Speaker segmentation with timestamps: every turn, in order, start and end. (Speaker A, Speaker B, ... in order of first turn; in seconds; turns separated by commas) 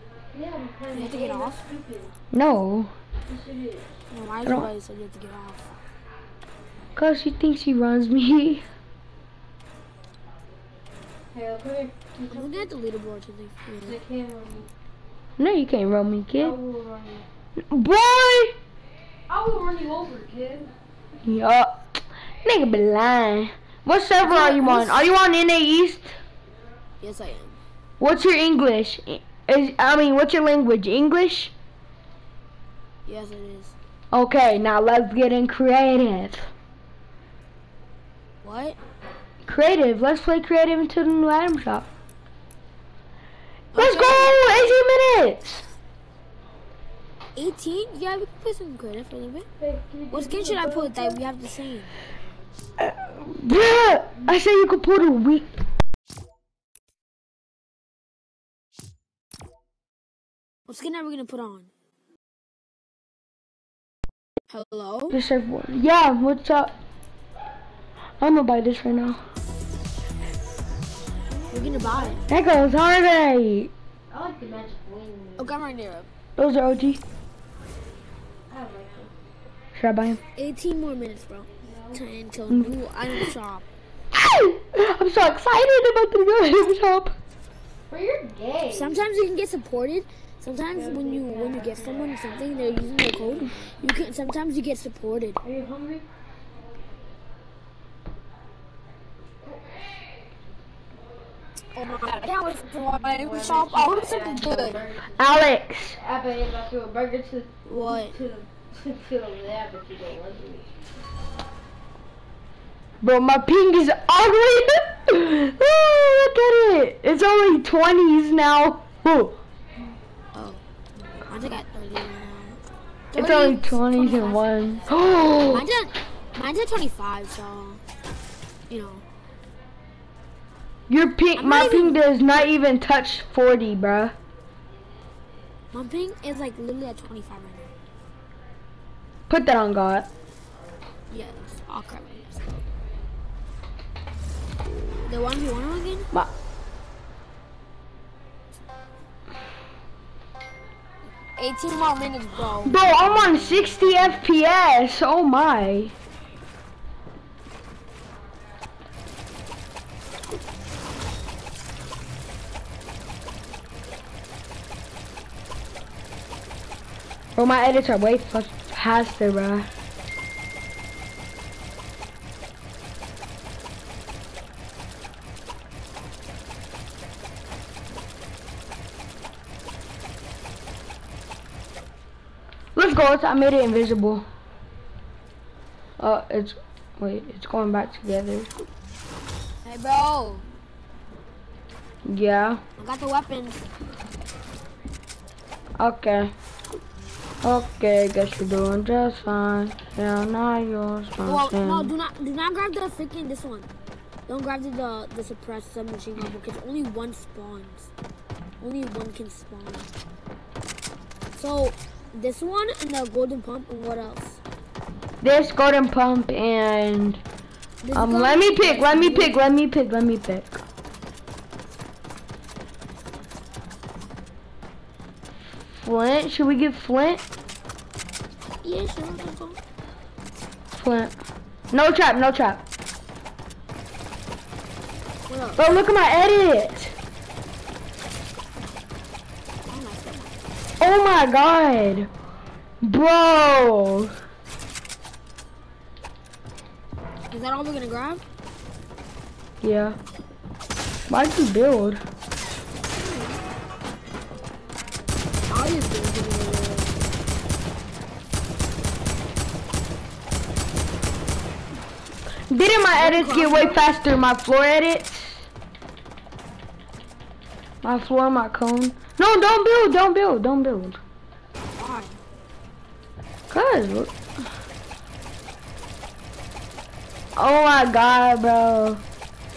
Speaker A: 0.3-2.1, Speaker B: 0.9-1.6, Speaker C: 2.3-2.9, Speaker A: 3.3-3.9, Speaker B: 4.1-5.8, Speaker C: 4.4-4.7, Speaker C: 7.0-8.6, Speaker A: 11.3-12.7, Speaker B: 12.3-14.0, Speaker A: 13.8-14.7, Speaker C: 15.4-16.6, Speaker A: 16.4-17.2, Speaker C: 17.6-18.6, Speaker A: 19.3-20.7, Speaker C: 21.2-21.9, Speaker C: 22.4-26.1, Speaker B: 24.2-25.1, Speaker B: 27.0-27.6, Speaker C: 28.0-31.5, Speaker B: 33.0-33.7, Speaker C: 34.1-36.5, Speaker B: 38.4-38.8, Speaker C: 39.4-41.9, Speaker B: 43.7-44.7, Speaker C: 43.7-45.6, Speaker B: 47.3-49.5, Speaker A: 49.6-50.9, Speaker B: 50.1-52.0, Speaker C: 52.8-55.5, Speaker B: 60.7-61.7, Speaker B: 64.5-65.2, Speaker C: 65.1-66.7, Speaker C: 68.2-69.2, Speaker B: 71.5-72.2, Speaker A: 71.5-72.2, Speaker C: 72.3-73.7, Speaker A: 74.1-75.5, Speaker B: 75.4-76.1, Speaker C: 76.4-77.0, Speaker A: 78.5-79.1, Speaker C: 79.8-80.2, Speaker B: 80.3-83.6, Speaker A: 81.6-82.0, Speaker C: 84.1-87.2, Speaker A: 87.9-89.0, Speaker B: 88.7-95.4, Speaker A: 90.8-92.1, Speaker A: 95.4-96.0, Speaker B: 101.7-104.8, Speaker A: 102.7-105.2, Speaker C: 105.2-106.0, Speaker A: 105.9-110.7, Speaker B: 107.7-108.2, Speaker C: 113.0-119.4, Speaker B: 120.3-120.6, Speaker B: 121.2-122.6, Speaker B: 123.1-124.4, Speaker C: 123.1-125.7, Speaker B: 125.5-127.8, Speaker B: 128.7-129.0, Speaker C: 130.9-134.1, Speaker B: 131.3-132.0, Speaker B: 135.7-137.7, Speaker C: 139.3-140.1, Speaker B: 141.1-142.5, Speaker B: 144.6-146.1, Speaker B: 151.3-153.4, Speaker C: 152.6-155.9, Speaker C: 167.3-169.7, Speaker C: 182.8-184.2, Speaker C: 186.0-188.5, Speaker B: 189.6-190.5, Speaker C: 192.1-192.6, Speaker B: 192.8-193.6, Speaker C: 195.8-196.3, Speaker C: 197.4-201.9, Speaker B: 201.2-203.7, Speaker B: 204.3-207.9, Speaker B: 208.6-209.9, Speaker B: 211.3-214.4, Speaker C: 215.2-217.2, Speaker B: 217.8-219.4, Speaker C: 217.9-220.6, Speaker C: 225.7-227.2, Speaker B: 228.6-229.6, Speaker C: 230.8-231.2, Speaker C: 231.7-232.6, Speaker B: 235.3-235.7, Speaker C: 235.6-236.9, Speaker B: 239.6-240.4, Speaker C: 240.8-242.1, Speaker C: 242.8-244.1, Speaker B: 247.3-248.2, Speaker C: 249.6-250.0, Speaker C: 251.1-252.0, Speaker B: 252.9-253.5, Speaker B: 255.5-257.1, Speaker C: 262.5-265.4, Speaker B: 262.9-263.9, Speaker C: 267.8-271.0, Speaker B: 271.7-272.2, Speaker C: 273.5-274.1, Speaker C: 277.4-279.0